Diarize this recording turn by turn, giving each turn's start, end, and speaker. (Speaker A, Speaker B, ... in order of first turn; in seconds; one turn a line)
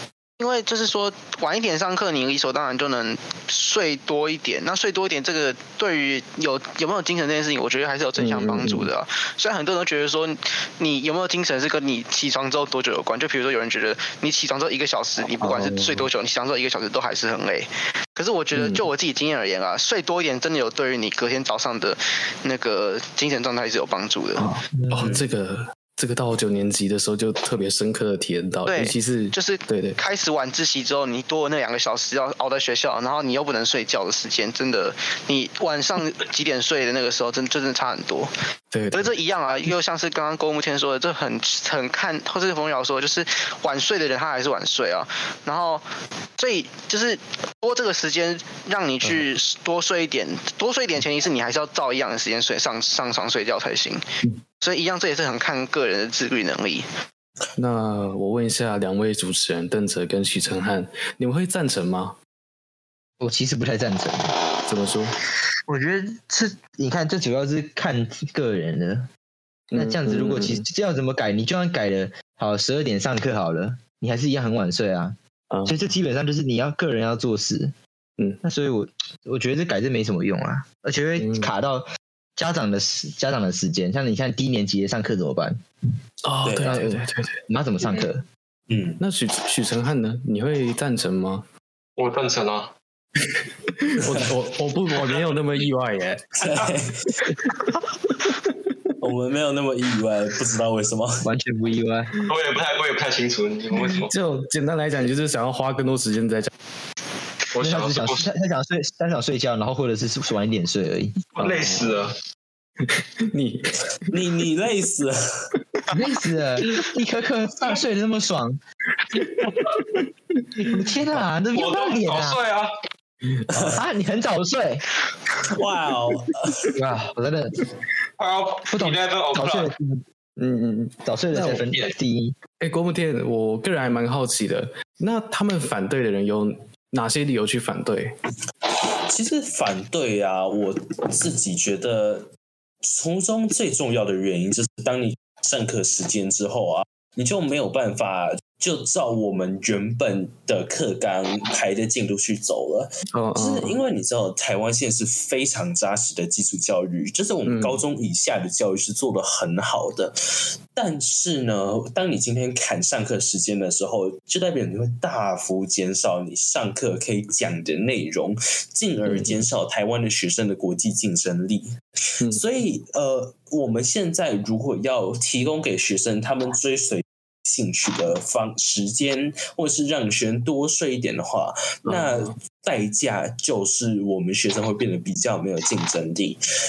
Speaker A: 0.4-24.5
Speaker B: 8.2-8.9
Speaker B: 15.4-16.1
Speaker B: 18.5-18.8
Speaker B: 24.4-30.0
Speaker C: 24.7-25.1
Speaker D: 25.0-25.2
Speaker A: 28.7-38.3
Speaker B: 38.7-39.1
Speaker A: 38.9-45.8
Speaker A: 46.4-54.0
Speaker A: 54.6-56.8
Speaker B: 57.6-62.1
Speaker C: 63.2-64.3
Speaker B: 64.6-65.2
Speaker C: 65.7-69.1
Speaker B: 69.7-70.7
Speaker C: 69.7-77.7
Speaker B: 75.5-75.8
Speaker C: 78.4-85.6
Speaker B: 81.2-81.5
Speaker B: 86.2-87.4
Speaker D: 86.4-86.8
Speaker C: 86.6-88.2
Speaker D: 88.7-89.0
Speaker B: 89.0-91.5
Speaker E: 92.0-92.7
Speaker B: 93.2-96.5
Speaker D: 94.0-94.3
Speaker E: 95.0-95.3
Speaker D: 96.4-97.3
Speaker B: 98.2-98.7
Speaker D: 99.0-101.3
Speaker C: 101.2-102.2
Speaker E: 102.3-104.1
Speaker B: 103.7-106.5
Speaker E: 107.5-108.3
Speaker C: 107.6-111.2
Speaker E: 111.3-112.2
Speaker B: 111.4-112.0
Speaker B: 112.8-114.1
Speaker D: 114.1-115.5
Speaker C: 115.9-118.6
Speaker B: 119.1-121.0
Speaker C: 120.6-122.4
Speaker E: 121.5-122.7
Speaker B: 123.2-123.8
Speaker D: 123.5-123.8
Speaker C: 123.6-124.8
Speaker D: 125.4-126.7
Speaker C: 126.7-127.6
Speaker E: 128.2-129.7
Speaker C: 128.7-130.0
Speaker B: 130.4-131.6
Speaker C: 131.0-132.4
Speaker E: 131.7-131.9
Speaker B: 132.6-138.1
Speaker D: 139.1-142.3
Speaker D: 142.8-160.1
Speaker B: 153.1-153.8
Speaker B: 157.4-157.8
Speaker D: 160.7-186.4
Speaker B: 169.0-169.4
Speaker B: 181.8-182.3